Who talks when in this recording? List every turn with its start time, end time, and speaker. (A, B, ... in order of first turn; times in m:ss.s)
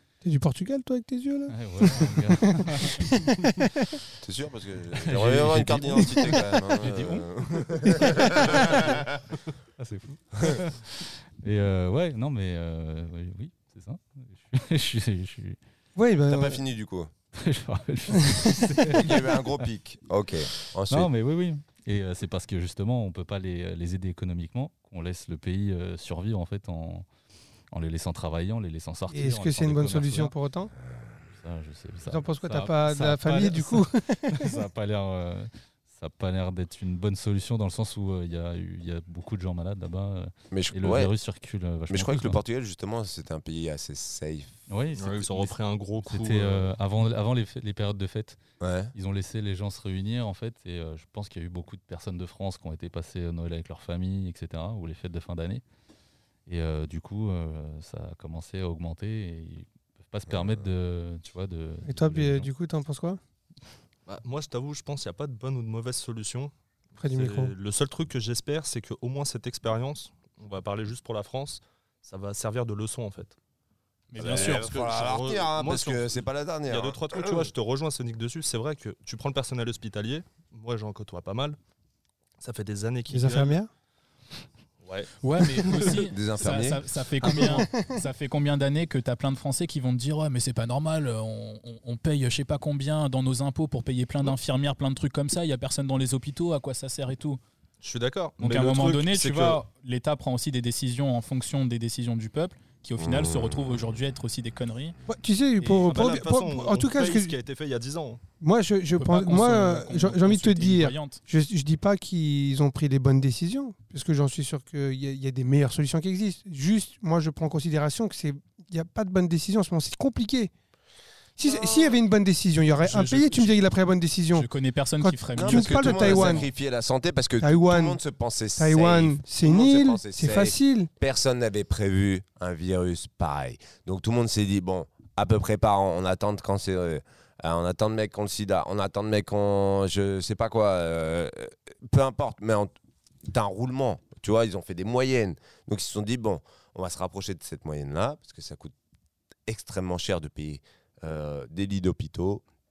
0:00.2-0:03.9 A
0:01.5-0:03.7 B
0:04.2-0:09.2 C
0:05.0-0:06.9 B
0:06.8-0:07.8 D
0:08.4-0:08.8 B
0:09.8-0:15.6 B
0:16.0-0:16.6 A
0:16.3-0:17.1 C
0:17.3-0:19.5 B
0:18.1-0:18.9 A
0:18.9-0:21.1 C
0:20.9-0:27.1 B
0:27.7-0:30.3 B
0:29.1-0:30.7 A
0:31.3-0:42.4 B
0:32.1-0:34.5 A
0:40.5-0:41.1 C
0:41.9-0:44.5 C
0:44.7-0:48.4 B
0:45.0-0:46.7 E
0:48.6-0:48.9 C
0:48.9-0:55.6 B
0:56.4-1:02.5 B
1:00.3-1:00.6 C
1:01.8-1:03.2 A
1:04.1-1:13.4 E
1:07.0-1:07.5 A
1:14.1-1:14.7 D
1:14.2-1:17.5 C
1:14.2-1:21.6 E
1:22.4-1:23.6 E
1:23.1-1:23.7 A
1:24.8-1:26.0 E
1:25.2-1:37.4 D
1:26.1-1:26.8 C
1:27.3-1:27.9 A
1:37.8-1:39.6 E
1:38.4-1:45.0 D
1:43.0-1:43.7 C
1:45.1-1:47.3 A
1:45.6-1:48.2 E
1:48.4-2:00.5 A
1:48.9-1:51.2 D
2:01.4-2:04.5 A
2:02.8-2:03.5 D
2:04.3-2:06.4 D
2:05.0-2:06.5 A
2:05.4-2:22.7 C
2:07.4-2:08.0 A
2:08.6-2:10.9 A
2:23.3-2:28.7 C
2:29.5-2:32.4 C